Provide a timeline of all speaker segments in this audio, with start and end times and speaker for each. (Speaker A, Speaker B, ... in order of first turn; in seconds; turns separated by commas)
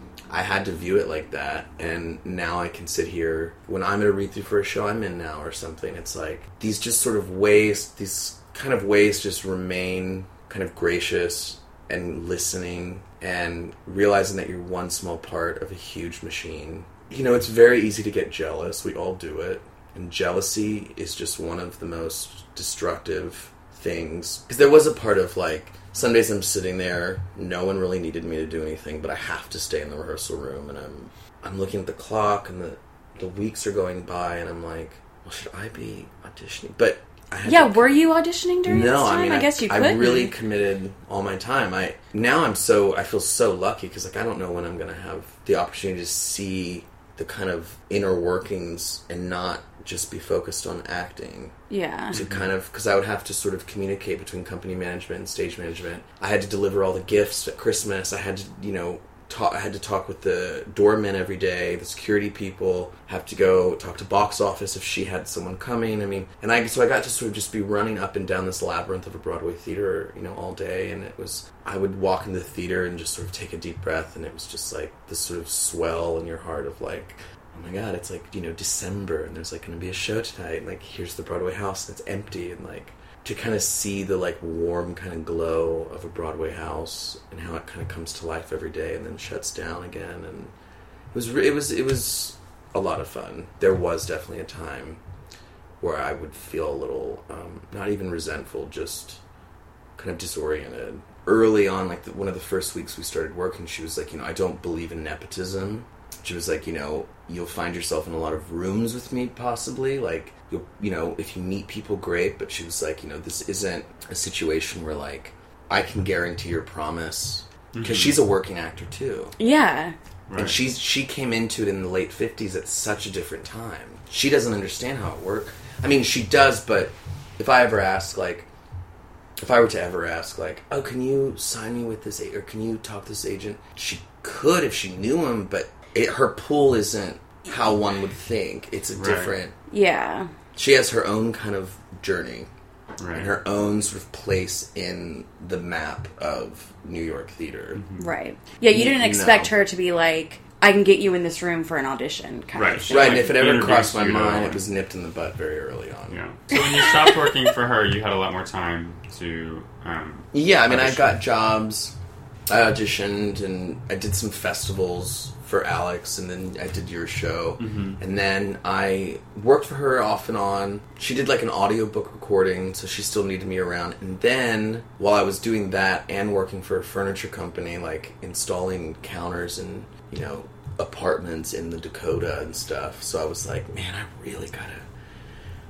Speaker A: 0.3-37.9, Speaker B: 37.5-40.3, Speaker A: 38.6-51.5, Speaker B: 51.7-52.2, Speaker A: 52.1-90.5, Speaker C: 52.1-52.5, Speaker A: 91.1-95.0, Speaker A: 95.8-99.2, Speaker A: 100.0-119.4, Speaker C: 117.7-118.2, Speaker B: 119.4-120.0, Speaker C: 120.3-120.6, Speaker A: 120.3-128.5, Speaker A: 129.4-139.5, Speaker C: 139.0-139.3, Speaker B: 139.7-140.3, Speaker A: 140.6-142.5, Speaker C: 143.0-143.3, Speaker A: 143.1-147.8, Speaker C: 147.8-148.0, Speaker B: 148.0-153.3, Speaker A: 148.7-149.5, Speaker C: 152.5-154.6, Speaker A: 152.9-156.2, Speaker C: 156.1-161.1, Speaker B: 156.5-157.2, Speaker A: 160.3-161.9, Speaker A: 162.5-184.9, Speaker C: 167.6-168.0